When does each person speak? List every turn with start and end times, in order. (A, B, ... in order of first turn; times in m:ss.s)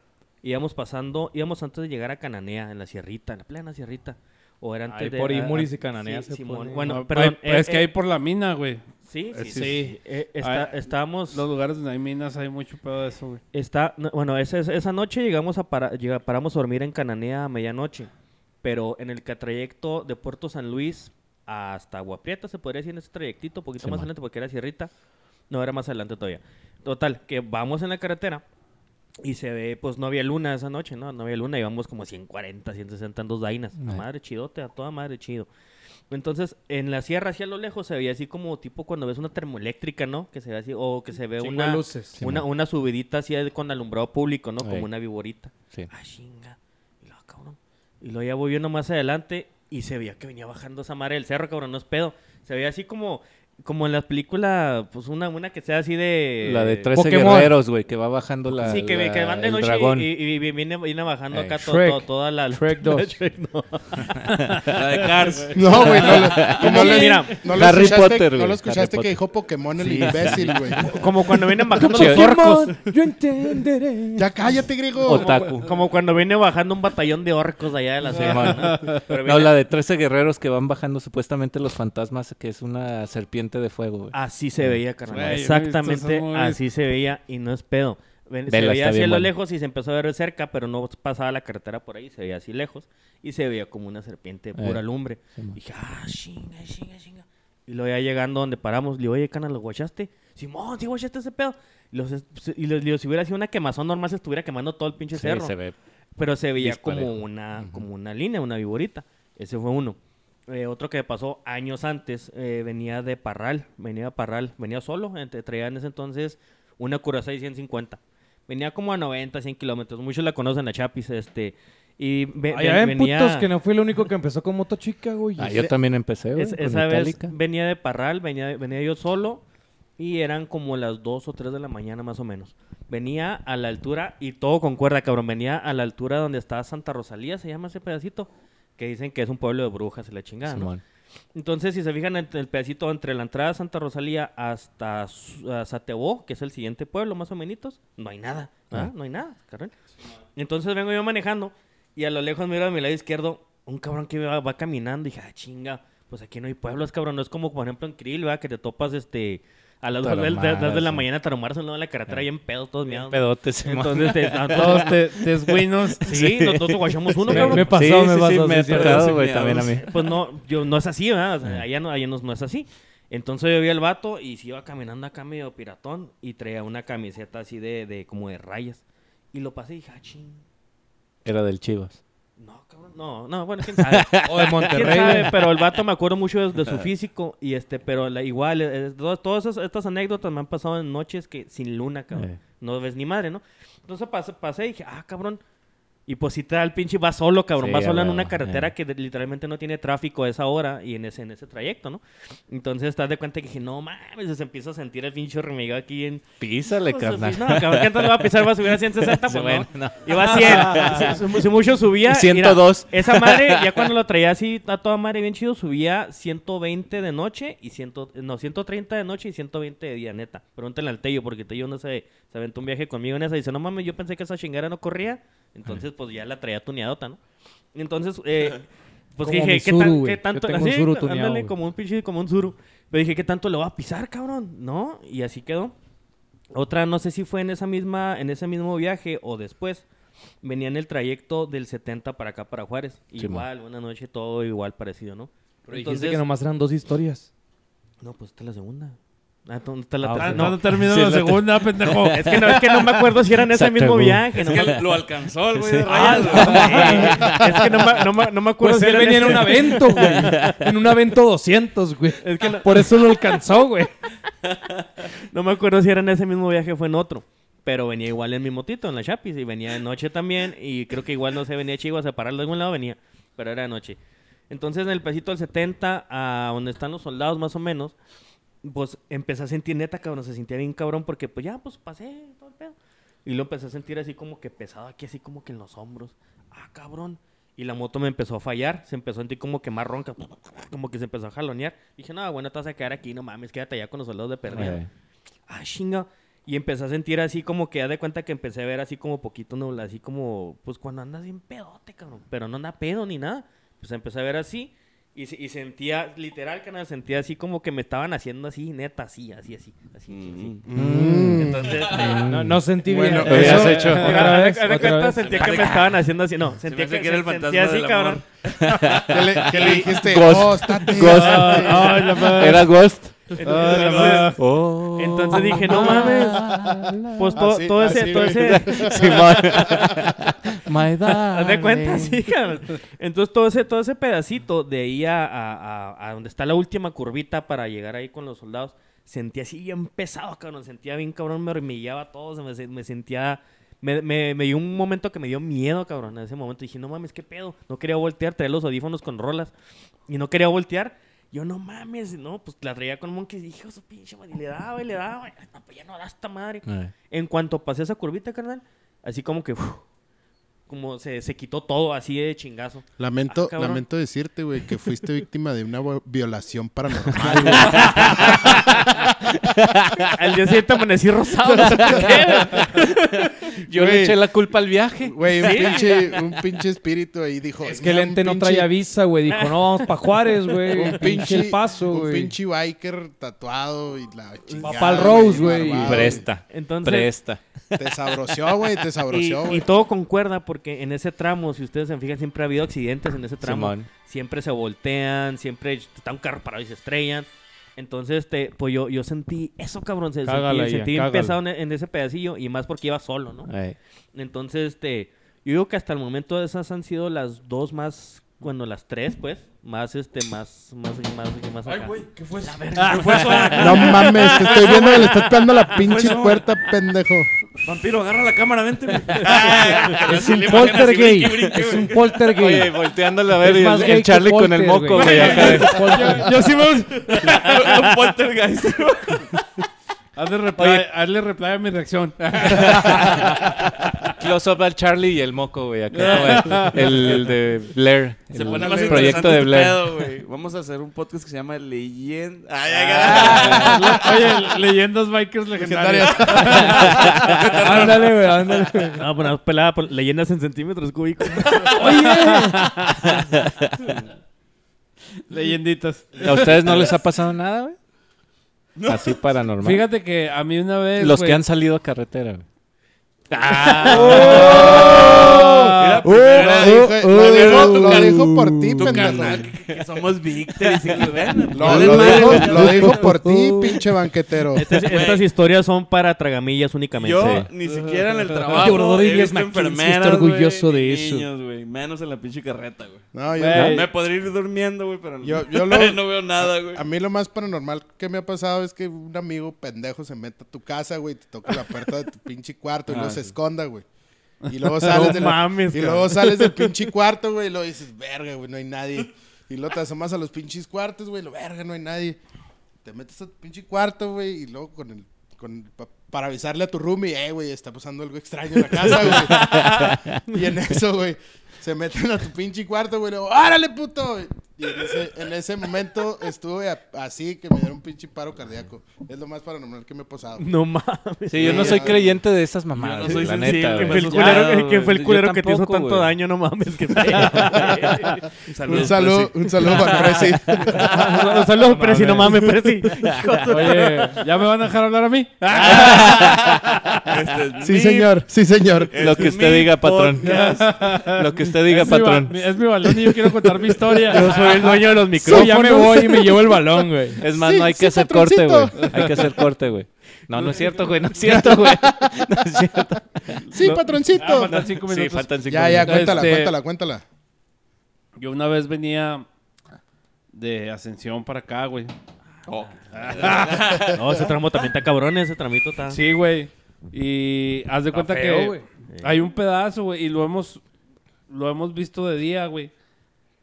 0:00.4-0:07.9 A
0:04.9-0:07.0 B
0:06.8-0:10.8 C
0:09.0-0:11.4 A
0:09.5-0:09.9 B
0:11.3-0:13.4 C
0:13.5-0:18.1 A
0:18.6-0:24.9 A
0:23.8-0:24.1 D
0:25.5-0:28.4 A
0:29.2-0:35.5 A
0:33.8-0:34.0 D
0:36.1-0:57.3 A
0:41.4-0:42.2 B
0:42.2-0:42.5 D
0:44.6-0:44.9 D
0:56.4-1:00.1 D
0:56.9-0:57.6 B
0:58.5-1:07.5 A
1:01.6-1:03.2 B
1:04.7-1:06.5 E
1:05.5-1:10.9 F
1:06.0-1:09.2 D
1:09.8-1:12.8 A
1:09.8-1:11.0 D
1:11.7-1:14.3 B
1:11.8-1:12.4 D
1:14.2-1:15.3 F
1:15.0-1:15.7 D
1:15.1-1:19.5 A
1:18.1-1:19.1 C
1:18.1-1:24.8 D
1:24.1-1:45.5 A
1:25.1-1:26.6 C
1:28.5-1:29.3 D
1:45.1-1:45.7 D
1:46.2-2:03.5 A
1:46.6-1:47.8 D
2:02.5-2:05.7 B
2:05.4-2:07.3 D
2:06.3-2:09.4 A
2:10.0-2:20.7 A
2:20.4-2:20.8 D
2:21.3-2:29.7 A
2:30.4-2:45.1 A
2:40.0-2:41.0 D
2:42.9-2:49.9 D
2:44.6-2:46.1 C
2:46.0-2:47.8 A
2:47.3-2:49.1 B
2:48.7-2:49.8 E
2:49.5-2:58.8 A
2:59.3-3:00.4 A
3:01.2-3:02.0 D
3:02.4-3:15.4 A
3:03.7-3:05.1 D
3:04.2-3:05.3 B
3:12.1-3:12.4 D
3:16.1-3:47.2 A
3:17.6-3:18.7 D
3:26.4-3:31.2 D
3:32.0-3:33.9 D
3:47.7-3:55.7 A
3:49.2-3:51.5 B
3:56.5-3:59.8 A
4:00.4-4:06.2 A
4:03.2-4:03.4 D
4:05.7-4:07.3 B
4:08.0-4:10.7 A
4:10.0-4:10.5 B
4:10.2-4:12.4 C
4:10.3-4:14.2 D
4:12.0-4:14.9 A
4:14.3-4:17.2 E
4:15.6-4:17.7 D
4:15.8-4:20.6 A
4:16.1-4:17.3 B
4:18.6-4:23.9 B
4:22.2-4:23.2 A
4:25.2-4:34.0 A
4:34.5-4:38.0 A
4:38.6-4:54.8 A
4:54.5-4:54.9 D
4:55.5-5:10.7 A
5:10.1-5:10.6 E
5:10.6-5:11.8 F
5:10.7-5:12.6 D
5:11.3-5:12.3 A
5:12.2-5:15.2 B
5:12.8-5:14.0 F
5:13.2-5:14.3 D
5:13.4-5:18.2 A
5:13.5-5:14.2 C
5:15.1-5:16.0 E
5:16.6-5:19.4 E
5:18.6-5:23.3 D
5:19.1-5:22.0 F
5:19.5-5:19.9 A
5:21.0-5:22.7 C
5:21.6-5:22.2 A
5:23.3-5:24.4 A
5:23.4-5:24.4 C
5:23.5-5:24.2 E
5:24.4-5:27.4 D
5:24.9-5:26.6 A
5:27.2-5:29.9 A
5:27.4-5:30.1 F
5:28.0-5:32.2 D
5:31.2-5:49.5 A
5:50.1-5:59.8 A
5:56.6-5:56.9 D
6:00.7-6:03.8 A
6:03.0-6:08.6 F
6:07.2-6:08.8 A
6:07.3-6:08.5 D
6:09.4-6:10.1 D
6:10.1-6:13.3 A
6:11.8-6:12.9 D
6:13.6-6:15.7 D
6:13.7-6:14.2 F
6:15.0-6:18.7 F
6:15.4-6:16.3 A
6:17.7-6:22.3 B
6:19.3-6:19.8 A
6:20.7-6:26.3 F
6:24.5-6:27.1 A
6:24.6-6:26.2 B
6:25.7-6:27.8 D
6:27.8-6:29.6 F
6:29.1-6:43.5 A
6:33.4-6:33.9 D
6:40.2-6:41.4 B
6:43.5-6:43.8 D
6:44.1-6:55.2 A
6:51.6-6:56.5 E
6:53.5-6:57.3 F
6:57.6-7:02.3 E
6:59.1-7:00.0 A
6:59.9-7:02.8 B
7:02.3-7:06.1 D
7:03.4-7:06.3 B
7:04.9-7:07.7 C
7:07.1-7:09.4 E
7:10.2-7:14.1 C
7:10.6-7:10.8 D
7:12.4-7:13.5 D
7:14.2-7:19.8 D
7:15.9-7:17.3 C
7:18.3-7:24.0 E
7:18.4-7:19.3 F
7:23.0-7:27.4 C
7:23.1-7:24.2 F
7:25.6-7:27.2 F
7:26.4-7:28.2 E
7:27.5-7:29.0 B
7:28.9-7:32.1 A
7:31.7-7:32.7 B
7:33.1-7:33.8 D
7:35.3-7:36.9 C
7:36.2-7:37.8 D
7:38.8-7:39.2 E
7:38.9-7:39.9 D
7:39.6-7:41.4 C
7:41.0-7:42.4 D
7:43.3-7:44.6 D
7:43.5-7:45.0 A
7:43.8-7:48.2 E
7:44.0-7:44.8 C
7:44.0-7:49.4 F
7:44.1-7:44.8 B
7:46.0-7:48.7 B
7:48.7-7:53.2 E
7:48.8-7:49.4 D
7:51.5-7:54.7 F
7:51.7-7:52.7 D
7:52.1-7:53.7 B
7:54.5-7:57.4 A
7:54.7-7:55.3 E
7:57.0-8:06.8 E
7:57.2-7:57.5 D
7:58.5-8:01.3 B
8:03.1-8:03.8 F
8:03.4-8:03.9 C
8:05.2-8:13.8 F
8:12.9-8:13.3 E
8:14.4-8:15.6 C
8:14.5-8:22.2 F
8:14.9-8:16.1 A
8:22.8-8:40.5 F
8:29.6-8:30.0 D
8:40.4-8:42.0 A
8:41.3-8:46.1 D
8:41.4-8:42.1 F
8:42.7-8:44.8 E
8:43.1-8:48.3 A
8:48.5-8:50.0 E
8:48.6-8:51.0 F
8:49.8-8:54.2 A
8:51.7-8:52.2 B
8:51.8-8:52.2 C
8:53.5-8:56.6 C
8:55.6-8:56.6 E
8:55.6-8:56.3 A
8:57.1-8:58.2 E
8:57.6-8:58.9 F
8:58.9-9:00.9 E
8:59.0-9:00.5 D
9:00.2-9:04.7 C
9:01.0-9:02.4 D
9:04.1-9:06.1 A
9:05.2-9:07.2 B
9:05.3-9:06.0 C
9:07.2-9:13.5 D
9:07.2-9:09.3 F
9:08.7-9:09.2 C
9:11.3-9:12.1 F
9:13.5-9:14.6 F
9:14.1-9:16.5 C
9:14.5-9:16.4 D
9:15.5-9:17.0 F
9:18.2-9:19.2 C
9:20.3-9:21.9 C
9:22.4-9:24.0 E
9:22.4-9:26.0 A
9:22.9-9:24.0 C
9:25.9-9:30.6 C
9:27.9-9:28.6 B
9:28.9-9:29.2 A
9:31.3-9:32.7 C